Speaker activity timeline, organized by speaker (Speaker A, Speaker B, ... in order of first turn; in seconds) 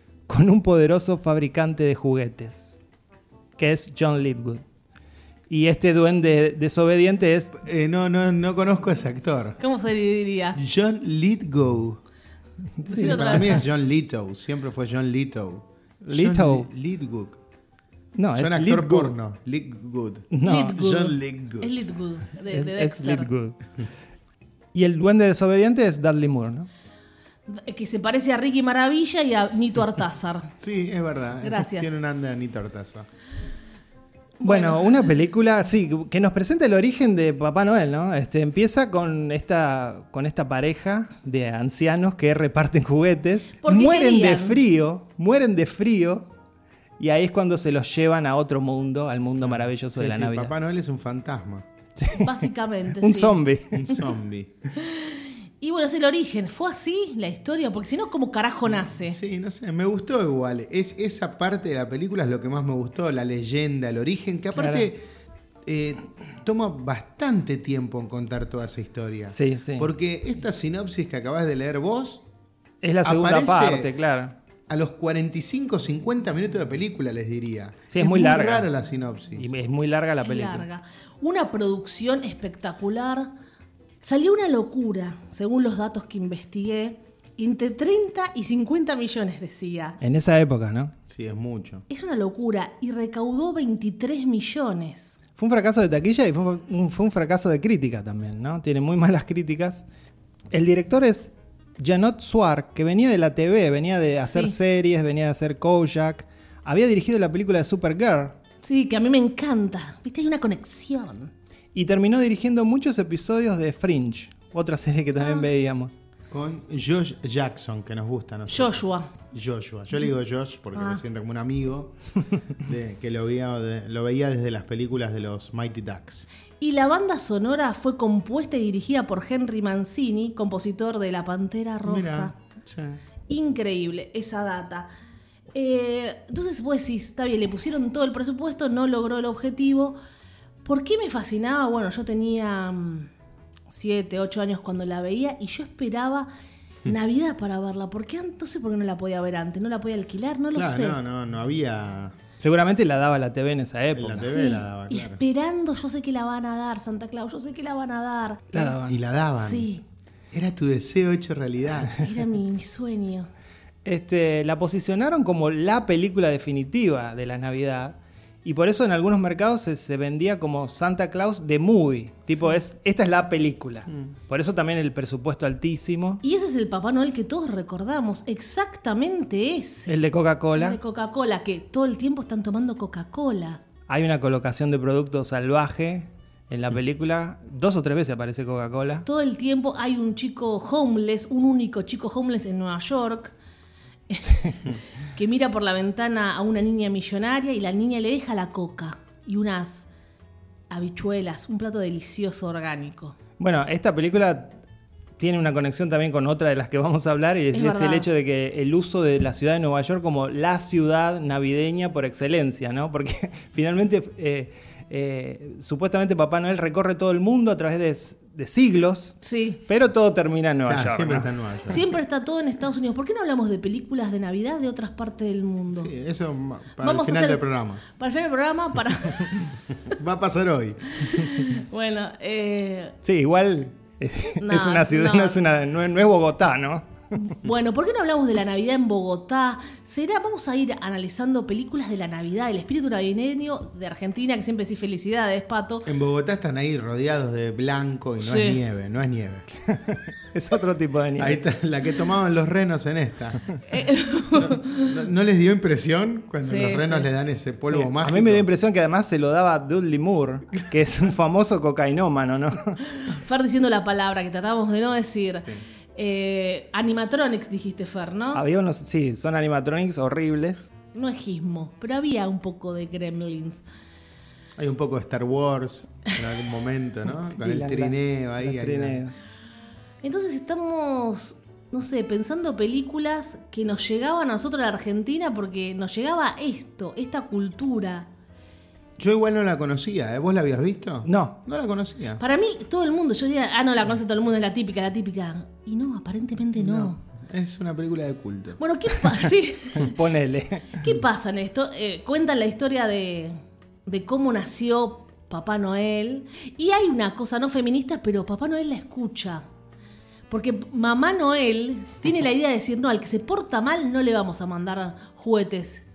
Speaker A: 0.3-2.8, 3.6-4.6, 5.5-7.5, 12.8-13.6, 16.0-16.7, 18.1-19.1, 20.3-21.1, 22.5-23.6, 24.7-26.7, 34.4-46.3, 47.0-50.5, 52.0-52.5, 53.0-54.0, 64.5-64.9, 69.3-69.9, 72.8-74.3, 77.9-78.7, 79.4-80.7, 90.0-90.9, 95.4-99.8, 100.5-108.4, 111.7-115.9, 152.4-154.3, 158.5-159.0, 163.8-176.2, 179.9-180.8, 183.9-189.1, 203.4-204.6, 205.2-221.3, 233.0-236.9, 249.9-251.4, 257.7-262.8, 268.3-270.7, 277.4-279.1, 291.1-291.4, 299.8-300.8
Speaker B: 7.5-9.6, 10.6-12.0, 12.9-17.4, 18.3-21.8, 30.6-33.1, 49.4-51.6, 53.7-54.5, 58.8-65.0, 65.6-72.2, 73.0-73.9, 74.7-79.5, 91.1-91.8, 116.3-122.0, 122.6-126.3, 131.8-133.0, 150.5-152.2, 153.9-155.2, 158.8-159.7, 160.3-162.1, 220.6-221.8, 225.8-227.8, 229.9-231.0, 245.8-249.5, 251.2-253.5, 254.4-258.5, 274.6-279.0, 289.0-292.2, 296.6-298.6
Speaker C: 9.6-10.6, 12.9-13.6, 20.4-23.3, 27.5-30.5, 31.4-31.9, 34.4-35.0, 43.6-44.6, 52.2-53.4, 54.8-59.2, 80.2-83.3, 84.0-90.0, 91.9-95.2, 104.3-104.5, 108.6-111.3, 118.5-119.1, 120.7-121.0, 126.6-132.3, 133.3-134.9, 135.5-140.0, 140.6-143.1, 143.7-146.3, 146.8-151.0, 154.2-158.8, 159.3-159.8, 162.0-163.3, 172.3-172.6, 176.2-180.0, 180.5-183.6, 189.0-193.3, 194.1-199.9, 200.7-203.2, 207.5-208.1, 219.2-219.6, 221.7-225.9, 226.8-229.6, 230.9-232.9, 234.4-235.4, 237.2-245.9, 248.2-248.6, 253.6-254.9, 256.4-257.1, 262.9-268.4, 270.9-273.6, 280.0-288.1, 292.2-297.0, 298.6-300.0, 300.8-309.4, 310.3-315.8